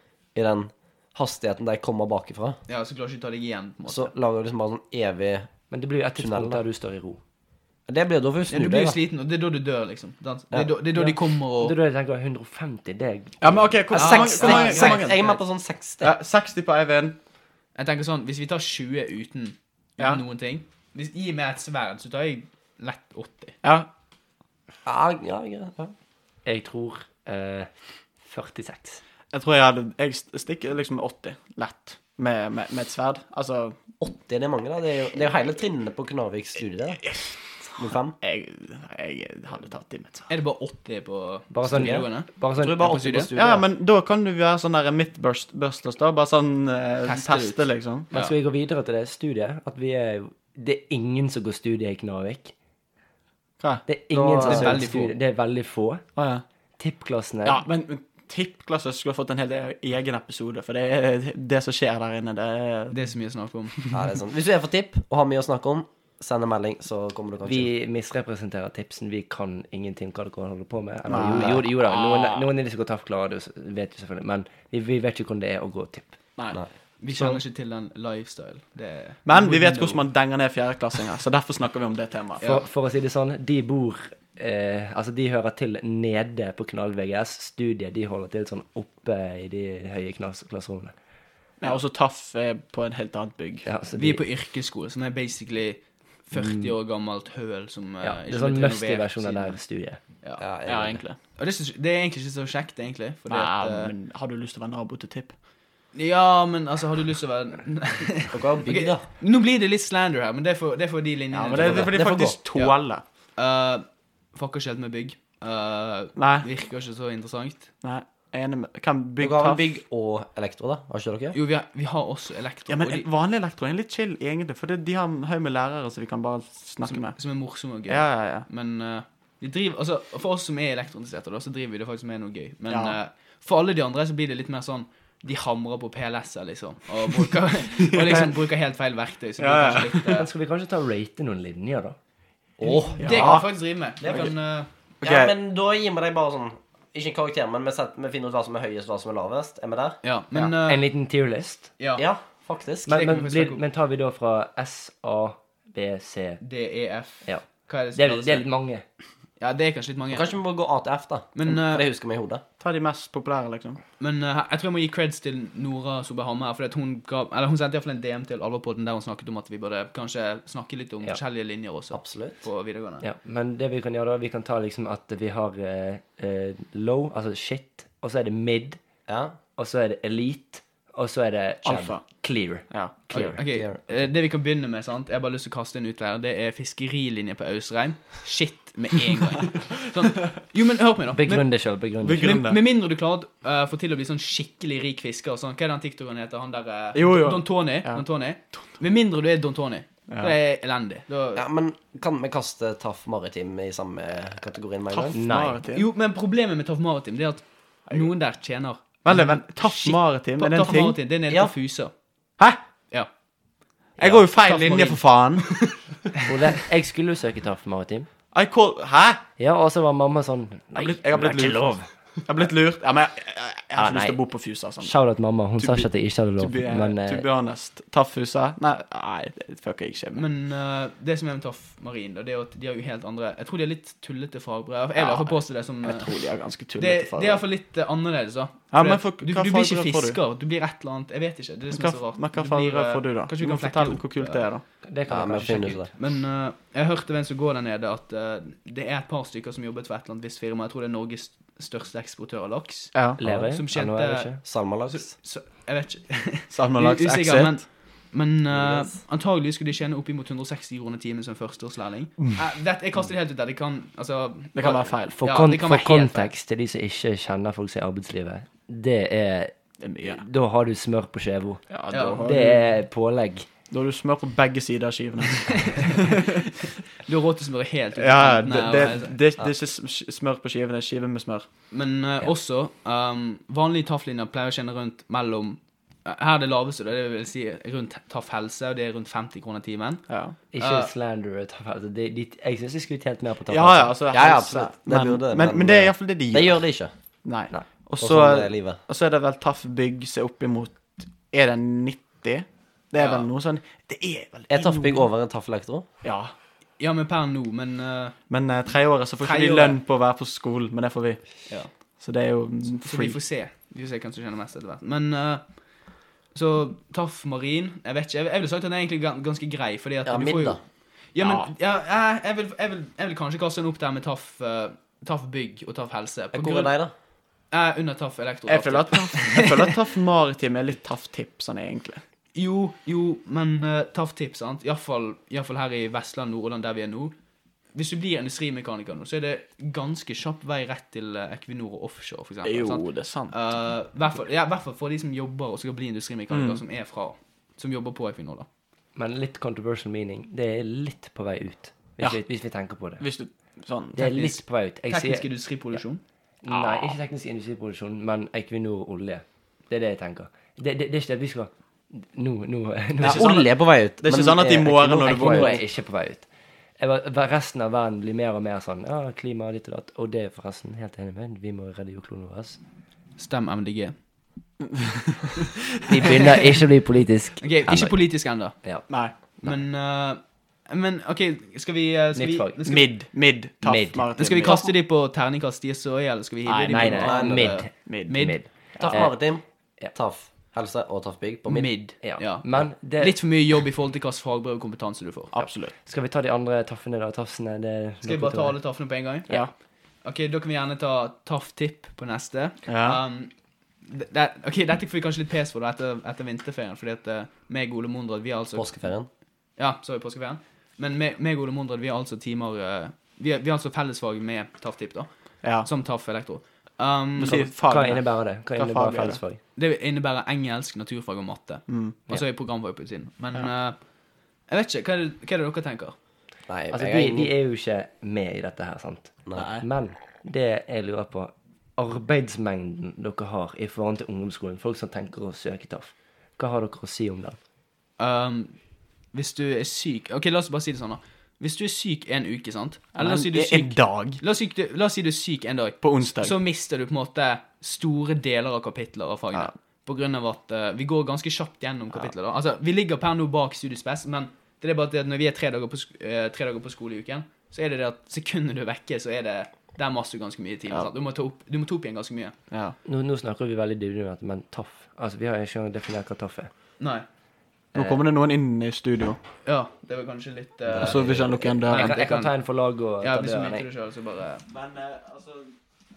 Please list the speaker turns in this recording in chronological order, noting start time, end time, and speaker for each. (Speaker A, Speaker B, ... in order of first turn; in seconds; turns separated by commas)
Speaker A: 0.3-2.6, Speaker B: 2.7-4.1, Speaker A: 3.9-5.5, Speaker C: 5.7-7.2, Speaker A: 6.2-6.6, Speaker A: 7.9-9.0, Speaker B: 8.5-11.8, Speaker C: 10.9-13.8, Speaker D: 13.4-15.2, Speaker A: 13.9-16.1, Speaker B: 13.9-15.4, Speaker D: 16.0-17.2, Speaker B: 17.8-23.6, Speaker A: 24.9-25.9, Speaker C: 26.4-27.7, Speaker C: 28.2-29.0, Speaker D: 29.3-33.8, Speaker A: 34.0-37.1, Speaker D: 37.0-40.3, Speaker A: 37.8-38.2, Speaker B: 40.3-43.3, Speaker C: 41.5-43.0, Speaker A: 41.7-42.0, Speaker A: 42.6-43.6, Speaker D: 43.4-48.1, Speaker B: 47.0-48.3, Speaker C: 48.1-52.5, Speaker D: 53.6-53.9, Speaker C: 53.9-56.0, Speaker A: 54.1-54.9, Speaker B: 54.4-55.1, Speaker D: 56.2-56.4, Speaker C: 56.8-57.6, Speaker D: 57.5-63.0, Speaker B: 62.9-63.8, Speaker A: 63.9-67.7, Speaker C: 67.4-76.2, Speaker D: 71.1-72.5, Speaker A: 71.2-71.5, Speaker B: 77.0-80.0, Speaker C: 77.1-77.4, Speaker D: 79.2-82.5, Speaker C: 82.4-90.9, Speaker D: 91.6-93.7, Speaker C: 93.7-94.2, Speaker B: 94.0-99.6, Speaker C: 96.3-96.7, Speaker C: 98.0-100.0, Speaker A: 100.4-101.0, Speaker D: 100.7-101.2, Speaker B: 101.4-103.9, Speaker D: 103.3-105.3, Speaker B: 105.9-112.0, Speaker A: 108.3-109.1, Speaker D: 111.3-113.0, Speaker A: 111.5-112.4, Speaker B: 113.4-117.7, Speaker D: 116.2-116.5, Speaker D: 117.8-119.8, Speaker A: 119.2-121.4, Speaker B: 121.3-123.1, Speaker D: 122.7-127.2, Speaker B: 126.8-140.3, Speaker D: 127.9-128.5, Speaker D: 132.7-133.0, Speaker D: 137.9-138.2, Speaker D: 139.4-140.1, Speaker C: 140.1-142.0, Speaker A: 142.6-143.4, Speaker B: 142.6-144.7, Speaker D: 143.0-143.5, Speaker A: 144.0-144.3, Speaker D: 145.0-145.3, Speaker A: 145.0-150.5, Speaker B: 150.0-150.9, Speaker C: 150.6-151.7, Speaker B: 151.8-152.0, Speaker A: 152.0-153.1, Speaker C: 152.9-156.4, Speaker B: 152.9-153.6, Speaker B: 156.4-158.4, Speaker C: 157.2-158.8, Speaker B: 159.4-160.3, Speaker A: 160.1-162.4, Speaker B: 161.3-161.8, Speaker D: 162.6-163.8, Speaker B: 164.0-173.1, Speaker A: 171.9-172.4, Speaker C: 173.0-178.8, Speaker A: 179.1-179.4, Speaker C: 179.6-183.4, Speaker D: 181.6-183.1, Speaker B: 183.1-191.5, Speaker A: 183.5-183.8, Speaker C: 191.1-192.4, Speaker D: 192.0-192.6, Speaker B: 192.2-201.4, Speaker D: 196.9-198.6, Speaker D: 200.1-200.3, Speaker A: 201.4-205.2, Speaker D: 204.9-205.9, Speaker C: 205.1-205.6, Speaker B: 205.7-211.9, Speaker D: 209.0-211.0, Speaker D: 214.0-215.8, Speaker B: 214.1-215.0, Speaker C: 216.2-218.1, Speaker D: 218.3-219.2, Speaker C: 219.4-221.9, Speaker D: 220.8-221.7, Speaker D: 222.2-225.0, Speaker C: 223.8-224.2, Speaker C: 224.8-227.2, Speaker D: 225.6-230.2, Speaker B: 230.1-236.1, Speaker D: 235.0-237.4, Speaker B: 236.8-244.5, Speaker D: 238.7-240.2, Speaker D: 241.7-244.6, Speaker C: 244.8-245.9, Speaker A: 245.1-245.9, Speaker B: 246.0-266.3, Speaker D: 252.9-253.2, Speaker C: 253.2-254.4, Speaker A: 254.4-255.1, Speaker D: 256.5-257.6, Speaker A: 258.5-259.0, Speaker D: 264.6-265.2, Speaker C: 265.1-273.5, Speaker D: 269.8-270.2, Speaker D: 271.7-272.7, Speaker B: 271.9-272.2, Speaker D: 273.7-276.5, Speaker B: 275.5-276.2, Speaker B: 277.0-279.2, Speaker D: 278.0-281.5, Speaker B: 281.7-290.0, Speaker D: 290.1-290.4, Speaker C: 290.5-294.0, Speaker B: 290.6-290.9, Speaker D: 293.5-296.6, Speaker A: 294.1-296.9, Speaker D: 297.2-305.1, Speaker A: 298.0-298.8, Speaker B: 303.0-303.3, Speaker A: 304.5-305.9, Speaker D: 306.0-306.3, Speaker B: 306.8-308.2, Speaker D: 308.3-311.5, Speaker B: 309.2-309.8, Speaker D: 312.0-313.2, Speaker B: 312.8-315.6, Speaker B: 316.3-320.6, Speaker A: 320.1-320.6, Speaker B: 321.1-326.7, Speaker D: 321.2-321.5, Speaker A: 326.3-326.9, Speaker B: 327.5-329.7, Speaker D: 328.5-332.0, Speaker B: 332.4-337.1, Speaker B: 337.7-348.5, Speaker D: 342.4-343.3, Speaker D: 346.3-346.6, Speaker C: 349.0-353.0, Speaker D: 353.0-354.3, Speaker C: 353.9-355.3, Speaker B: 354.9-356.0, Speaker C: 356.4-363.4, Speaker D: 356.5-357.0, Speaker A: 363.0-365.6, Speaker D: 363.0-365.6, Speaker C: 365.0-366.3, Speaker C: 366.8-372.6, Speaker B: 373.2-374.0, Speaker D: 374.6-375.6, Speaker C: 375.9-378.9, Speaker B: 377.4-378.6, Speaker D: 378.9-379.1, Speaker B: 379.4-382.9, Speaker C: 382.1-382.6, Speaker D: 382.6-384.6, Speaker C: 383.6-384.1, Speaker B: 384.2-388.4, Speaker C: 386.6-389.2, Speaker A: 386.9-387.6, Speaker D: 387.9-388.3, Speaker A: 388.8-391.7, Speaker B: 391.5-395.3, Speaker C: 392.0-393.2, Speaker D: 395.3-395.7, Speaker C: 395.9-398.6, Speaker B: 398.0-399.4, Speaker B: 400.0-408.8, Speaker D: 402.7-403.0, Speaker A: 408.6-409.1, Speaker B: 409.6-417.4, Speaker D: 415.4-415.7, Speaker D: 417.2-419.2, Speaker C: 417.3-419.4, Speaker B: 419.6-423.8, Speaker D: 421.7-422.0, Speaker B: 424.5-425.9, Speaker A: 426.5-427.3, Speaker C: 426.7-437.4, Speaker D: 429.4-429.6, Speaker B: 438.0-438.6, Speaker B: 439.1-462.4, Speaker D: 443.0-444.2, Speaker D: 445.8-446.4, Speaker D: 462.5-462.8, Speaker C: 462.9-466.5, Speaker B: 466.8-467.1, Speaker C: 467.7-468.0, Speaker D: 467.7-469.2, Speaker B: 469.4-472.4, Speaker A: 470.7-471.6, Speaker D: 470.8-472.0, Speaker C: 471.7-473.7, Speaker B: 473.0-474.4, Speaker D: 474.5-475.5